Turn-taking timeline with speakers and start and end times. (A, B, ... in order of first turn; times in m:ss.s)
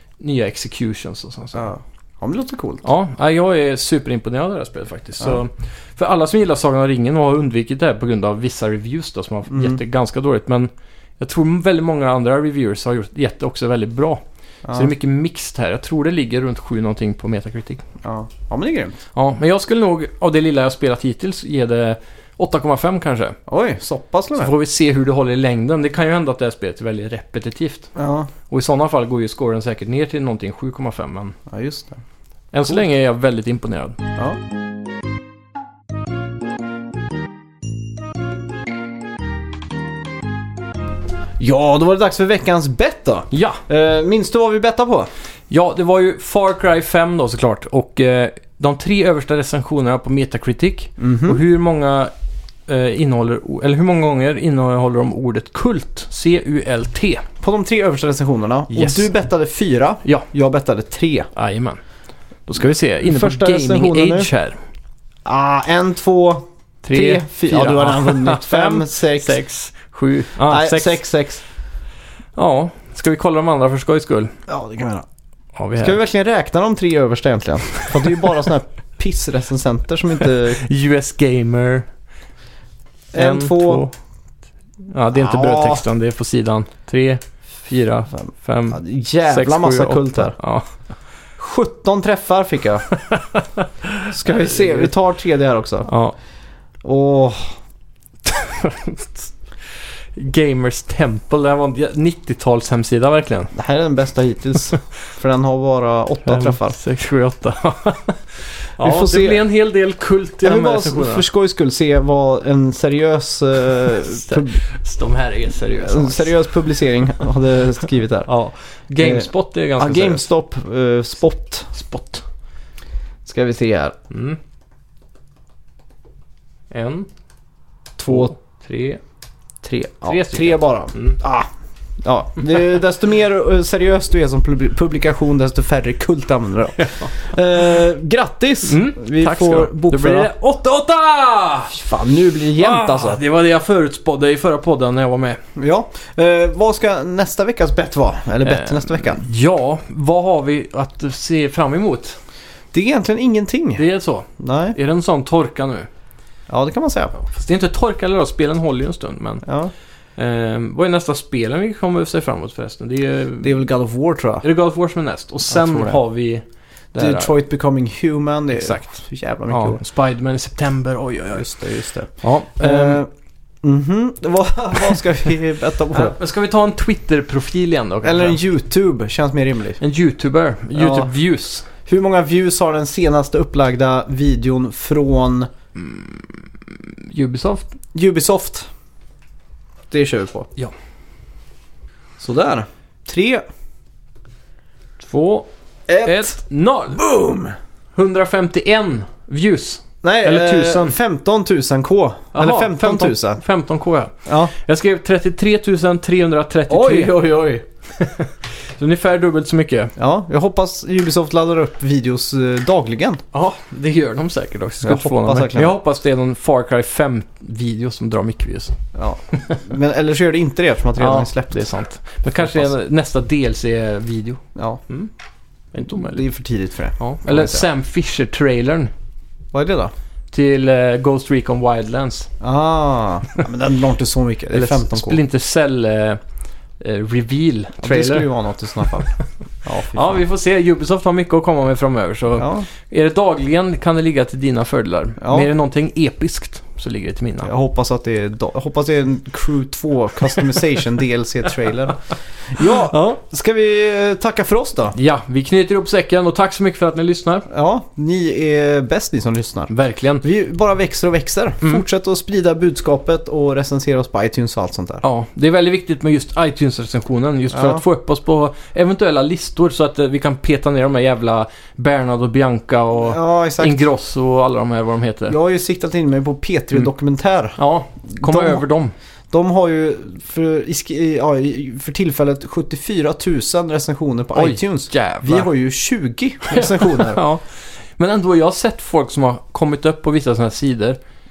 0:00.2-0:01.7 A
0:01.6-0:02.8 B
0:02.8-0:14.2 A
0:09.5-0:09.8 B
0:14.7-0:14.9 B
0:14.7-0:17.8 A
0:18.0-0:19.0 B
0:19.1-0:23.4 A
0:23.5-0:24.5 B
0:24.3-0:27.9 A
0:28.0-0:28.3 B
0:28.5-0:31.4 A
0:31.5-0:32.0 B
0:32.5-0:34.0 A
0:41.4-0:45.1 B
0:43.3-0:43.6 A
0:45.5-0:52.1 A
0:51.0-0:51.4 B
0:52.7-0:57.2 A
0:57.4-1:01.3 B
0:58.7-0:59.1 A
1:01.4-1:01.8 A
1:02.5-1:04.6 A
1:03.0-1:04.3 B
1:05.2-1:09.4 B
1:06.8-1:11.0 A
1:10.4-1:11.4 B
1:12.4-1:14.3 A
1:14.5-1:15.0 B
1:15.6-1:16.0 A
1:15.8-1:20.6 B
1:20.5-1:21.9 A
1:23.1-1:23.8 B
1:23.1-1:24.0 A
1:24.9-1:30.7 A
1:25.1-1:25.8 B
1:28.7-1:30.4 B
1:31.4-1:32.8 B
1:33.0-1:34.9 A
1:34.1-1:35.9 B
1:35.9-1:36.2 A
1:36.8-1:37.6 B
1:38.2-1:39.3 A
1:40.2-1:43.5 A
1:43.5-1:46.8 B
1:46.2-1:51.2 A
1:48.8-1:49.4 B
1:50.4-1:54.6 B
1:54.1-1:56.4 A
1:55.8-1:58.3 B
1:58.3-2:00.3 A
1:59.0-2:01.7 B
2:01.7-2:02.2 A
2:03.2-2:04.0 B
2:04.1-2:04.4 A
2:06.7-2:07.1 A
2:08.0-2:08.3 B
2:08.0-2:09.0 A
2:09.6-2:11.5 B
2:10.1-2:11.2 A
2:12.0-2:20.3 B
2:18.7-2:21.8 A
2:21.7-2:23.2 B
2:22.6-2:25.4 A
2:25.6-2:29.2 B
2:28.4-2:32.2 A
2:32.7-2:33.8 B
2:33.8-2:35.9 A
2:34.4-2:34.8 B
2:36.5-2:37.1 B
2:37.2-2:39.5 A
2:39.4-2:39.7 B
2:40.2-2:43.6 A
2:43.4-2:44.4 B
2:44.4-2:47.3 A
2:45.5-2:46.0 B
2:47.0-2:49.8 B
2:48.5-2:51.5 A
2:51.3-2:53.1 B
2:52.2-2:53.0 A
2:53.6-2:56.2 B
2:55.9-2:58.4 A
2:58.0-2:59.8 B
2:59.8-3:01.7 A
3:00.7-3:01.1 B
3:01.9-3:05.5 B
3:05.8-3:06.2 A
3:07.1-3:07.7 A
3:07.9-3:08.7 B
3:09.9-3:10.5 B
3:12.2-3:13.4 B
3:15.0-3:15.5 A
3:15.9-3:16.4 B
3:16.0-3:17.0 A
3:16.9-3:17.6 B
3:18.0-3:21.0 A
3:20.0-3:23.4 B
3:22.3-3:27.2 A
3:24.3-3:24.5 B
3:26.7-3:27.6 B
3:28.0-3:29.9 A
3:30.0-3:33.2 B
3:33.3-3:38.8 A
3:34.8-3:35.8 B
3:39.0-3:41.6 B
3:41.0-3:45.1 A
3:42.4-3:42.7 B
3:44.6-3:44.8 B
3:45.7-3:46.2 A
3:45.9-3:47.7 B
3:47.0-3:48.9 A
3:49.5-3:49.9 B
3:50.3-3:52.3 A
3:52.4-3:55.2 B
3:54.5-3:56.2 A
3:56.8-3:58.3 A
3:57.8-3:59.1 B
3:59.6-4:00.2 B
3:59.9-4:07.5 A
4:02.4-4:02.7 B
4:05.2-4:05.5 B
4:07.4-4:15.0 B
4:12.9-4:13.2 A
4:15.0-4:17.5 A
4:17.5-4:19.7 B
4:19.7-4:20.2 A
4:20.2-4:25.0 B
4:25.0-4:35.4 A
4:27.5-4:27.8 B
4:33.0-4:33.9 B
4:35.3-4:38.6 B
4:37.6-4:38.9 A
4:39.3-4:47.2 B
4:44.4-4:45.5 A
4:46.5-4:51.0 A